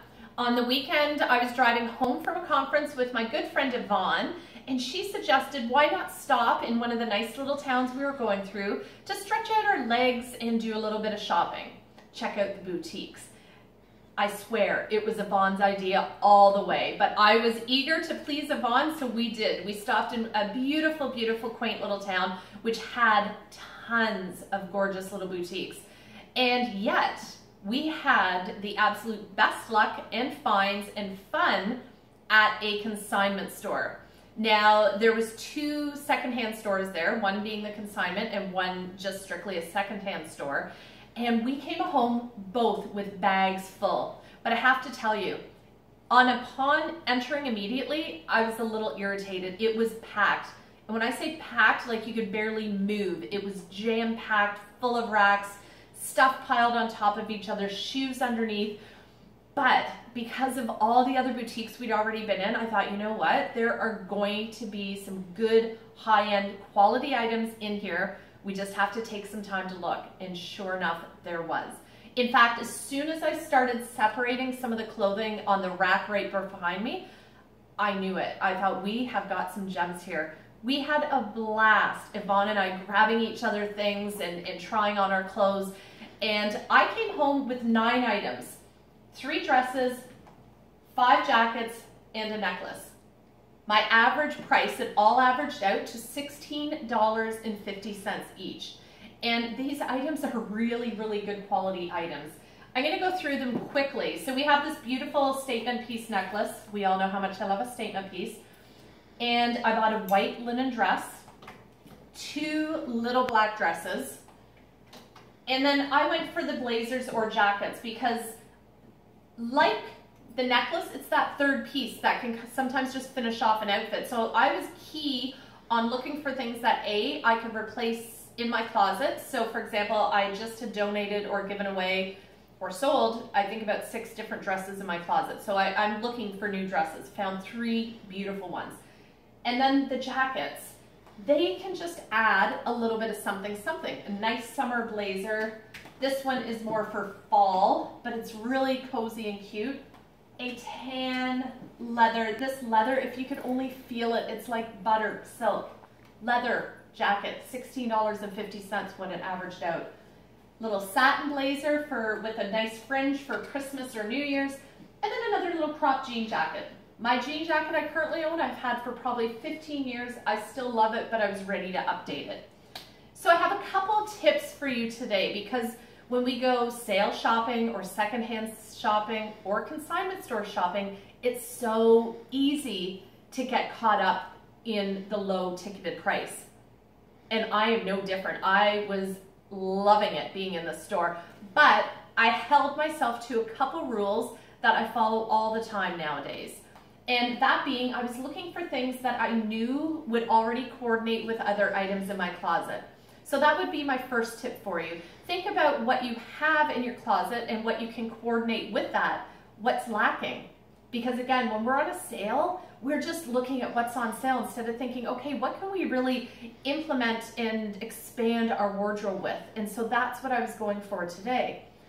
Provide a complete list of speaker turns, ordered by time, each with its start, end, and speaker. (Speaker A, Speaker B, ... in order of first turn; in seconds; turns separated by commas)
Speaker A: 0.4-13.3, Speaker A: 14.2-25.8, Speaker A: 26.4-31.8, Speaker A: 32.3-45.4, Speaker A: 46.1-58.8, Speaker A: 59.5-77.0, Speaker A: 77.8-88.6, Speaker A: 89.1-90.1, Speaker A: 90.9-92.9, Speaker A: 93.7-108.4, Speaker A: 109.2-111.2, Speaker A: 112.1-114.2, Speaker A: 115.5-118.4, Speaker A: 119.4-138.8, Speaker A: 139.4-149.8, Speaker A: 150.4-159.9, Speaker A: 160.6-172.4, Speaker A: 173.1-186.5, Speaker A: 187.3-221.6